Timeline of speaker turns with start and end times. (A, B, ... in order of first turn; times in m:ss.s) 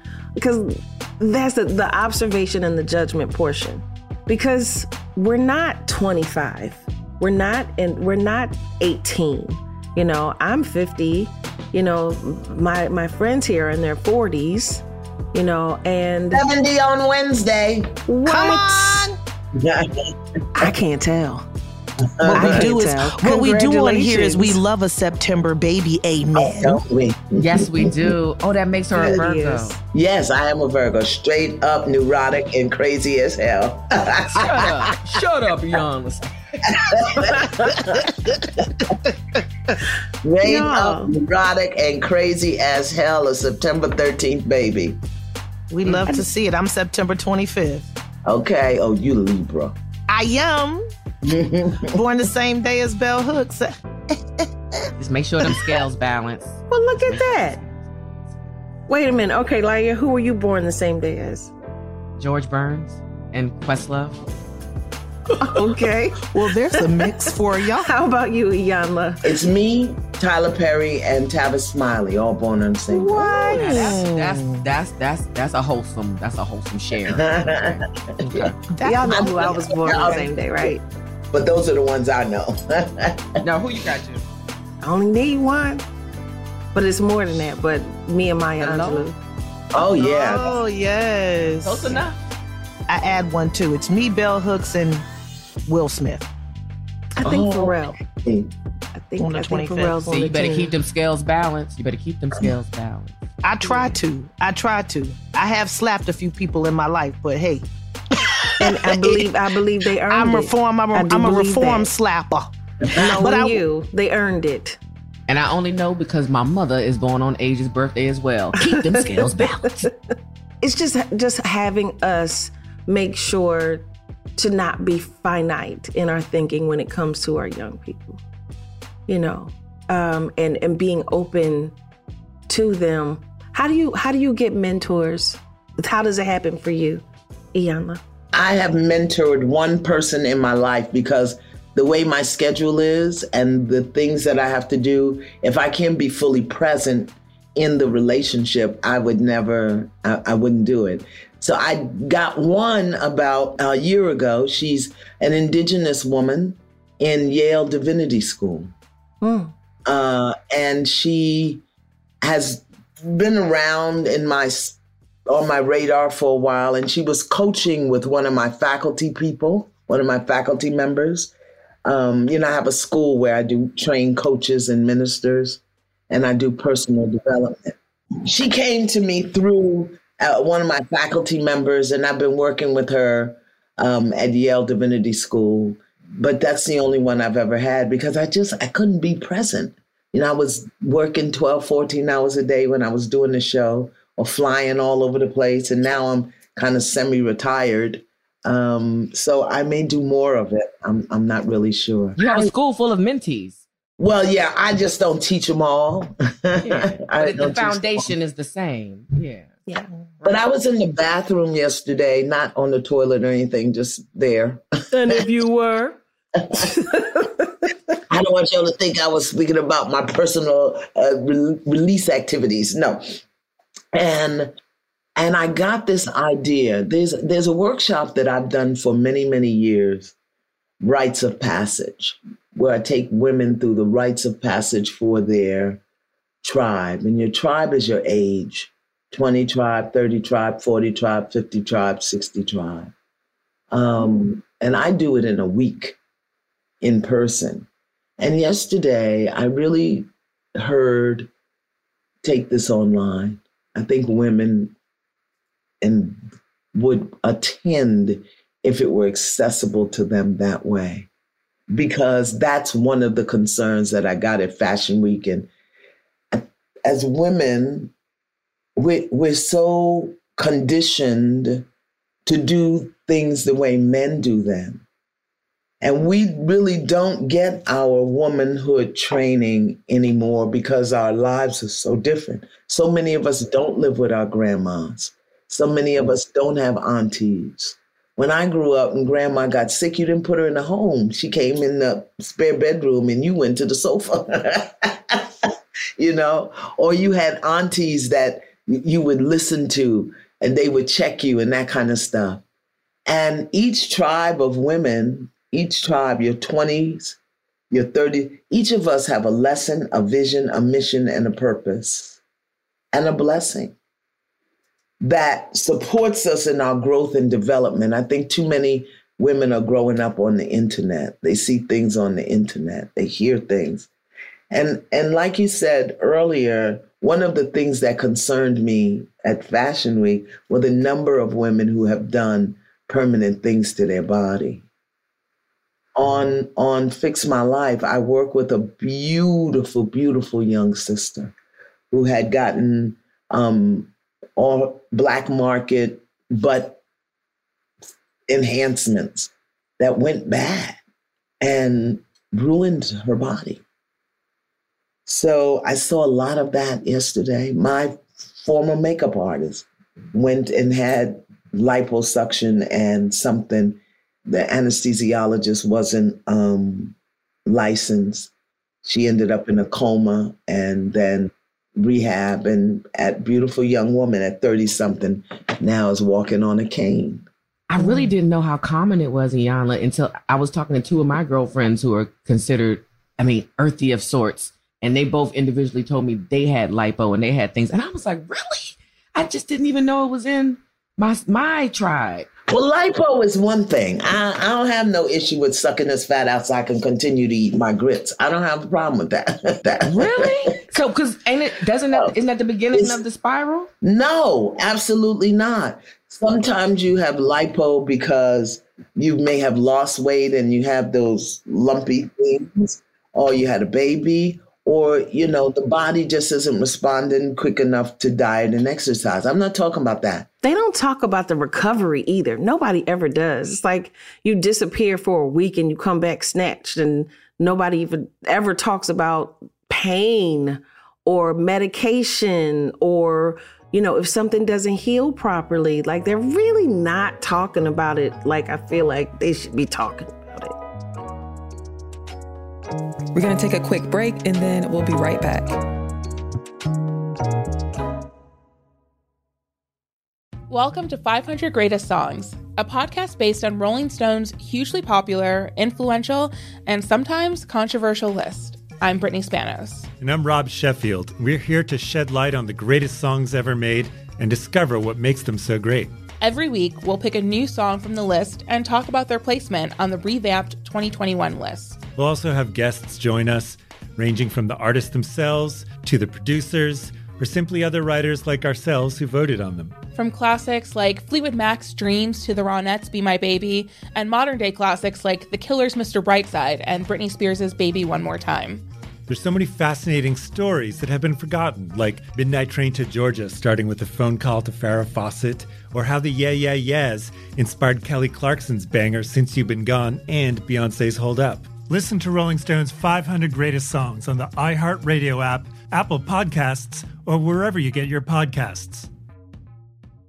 0:00.4-0:16.4 A
0:16.3-0:17.9 B
0:18.1-0:19.1 A
0:18.2-0:19.2 C
0:19.5-0:20.1 B
0:20.5-0:21.5 A
0:22.2-0:22.7 B
0:22.2-0:26.8 C
0:22.3-0:24.6 A
0:26.4-0:28.2 B
0:27.4-0:29.8 D
0:28.9-0:29.8 A
0:29.9-0:35.0 B
0:34.3-0:36.3 D
0:36.7-0:38.5 B
0:40.2-0:45.0 B
0:40.4-0:41.1 A
0:45.7-0:47.9 C
0:45.8-0:46.1 D
0:48.2-0:49.7 B
0:50.1-0:50.9 C
0:51.2-0:52.0 B
0:51.8-0:53.7 C
0:55.0-0:58.2 D
0:56.7-0:57.6 A
0:58.9-1:01.5 A
1:02.2-1:04.2 D
1:05.4-1:07.3 A
1:06.2-1:07.9 C
1:07.8-1:09.2 A
1:09.2-1:13.9 B
1:13.0-1:14.6 C
1:13.0-1:14.0 A
1:13.5-1:17.7 D
1:17.1-1:17.8 B
1:18.7-1:20.2 C
1:18.8-1:20.8 A
1:19.0-1:20.7 B
1:21.3-1:23.3 B
1:23.4-1:24.2 D
1:24.8-1:25.8 A
1:26.7-1:29.2 A
1:28.6-1:29.1 D
1:29.7-1:30.6 B
1:29.8-1:32.0 C
1:31.6-1:32.2 D
1:32.9-1:35.0 C
1:35.6-1:36.3 C
1:37.2-1:38.0 A
1:37.2-1:38.5 B
1:38.9-1:40.8 A
1:39.2-1:40.1 C
1:40.0-1:43.2 D
1:43.4-1:49.3 C
1:43.6-1:43.9 A
1:48.6-1:51.9 A
1:50.1-1:53.6 C
1:52.9-1:54.8 A
1:55.3-1:59.9 D
1:58.6-1:59.4 A
2:00.6-2:03.8 A
2:04.4-2:08.2 A
2:09.1-2:11.7 A
2:12.5-2:18.0 A
2:18.3-2:38.7 B
2:39.2-2:39.5 A
2:39.8-2:41.6 B
2:42.2-2:51.3 B
2:51.8-3:22.5 B
3:22.2-3:23.6 D
3:24.0-3:28.1 B
3:26.6-3:29.5 D
3:30.2-3:35.1 B
3:34.9-3:36.0 A
3:36.5-3:37.6 A
3:38.1-3:43.2 B
3:43.9-3:44.5 B
3:45.2-3:50.1 B
3:50.8-3:55.8 B
3:56.4-4:02.9 B
4:03.7-4:06.0 B
4:06.8-4:07.7 B
4:08.2-4:11.3 B
4:12.2-4:14.7 B
4:15.8-4:16.2 B
4:16.7-4:21.1 B
4:21.7-4:25.5 B
4:26.3-4:27.9 B
4:28.8-4:31.6 B
4:32.2-4:34.8 B
4:35.8-4:55.3 B
4:56.0-5:02.4 B
5:03.0-5:07.2 B
5:07.7-5:12.2 B
5:12.9-5:13.8 B
5:15.0-5:23.9 B
5:24.5-5:34.6 B
5:36.0-5:41.3 B
5:41.9-5:46.8 B
5:48.3-5:50.8 B
5:51.4-5:53.6 B
5:55.0-6:08.3 B
6:08.8-6:17.3 B
6:17.7-6:32.3 D
6:17.8-6:18.1 A
6:32.5-6:40.4 B
6:39.8-6:43.7 D
6:42.7-6:43.0 B
6:43.8-7:00.3 B
7:00.4-7:20.6 A
7:23.1-7:25.6 E
7:30.5-7:39.9 F
7:40.0-7:45.9 G
7:46.2-7:51.8 F
7:52.0-7:59.8 G
8:00.0-8:08.6 F
8:09.1-8:28.9 G